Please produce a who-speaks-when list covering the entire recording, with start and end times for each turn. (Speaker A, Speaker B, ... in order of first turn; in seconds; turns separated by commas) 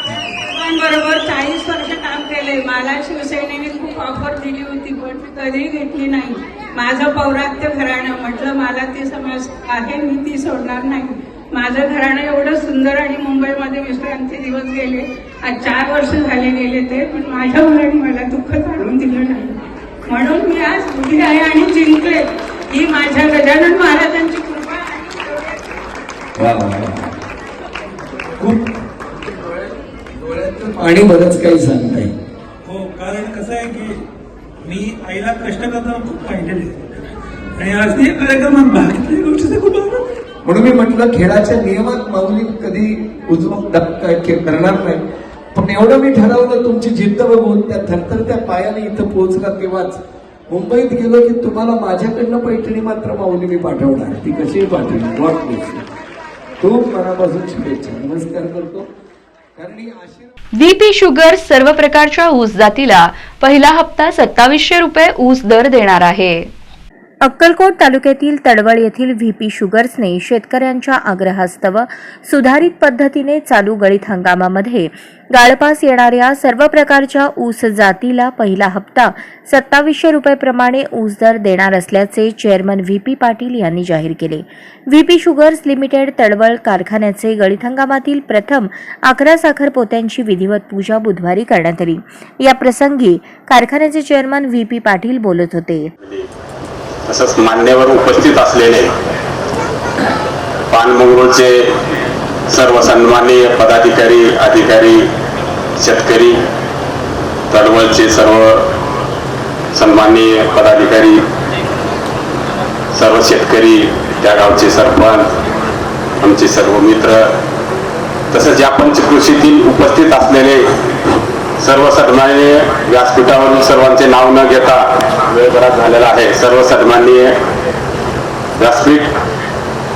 Speaker A: 0.5-19.6, Speaker A: 20.1-25.6, Speaker B: 26.4-27.1, Speaker B: 30.2-32.1, Speaker C: 32.6-34.0, Speaker C: 34.6-40.1, Speaker B: 40.4-45.0, Speaker B: 45.5-50.0, Speaker B: 50.5-55.9, Speaker B: 56.6-58.9, Speaker B: 59.6-60.3, Speaker D: 60.6-66.5, Speaker E: 67.2-95.9, Speaker F: 96.0-96.3, Speaker F: 97.1-99.0, Speaker F: 100.7-101.7, Speaker F: 102.5-105.1, Speaker F: 105.8-106.4, Speaker F: 107.5-108.7, Speaker F: 109.7-111.2, Speaker F: 112.9-115.3, Speaker F: 116.2-117.3, Speaker F: 118.3-120.8, Speaker F: 121.6-127.4, Speaker F: 128.6-129.1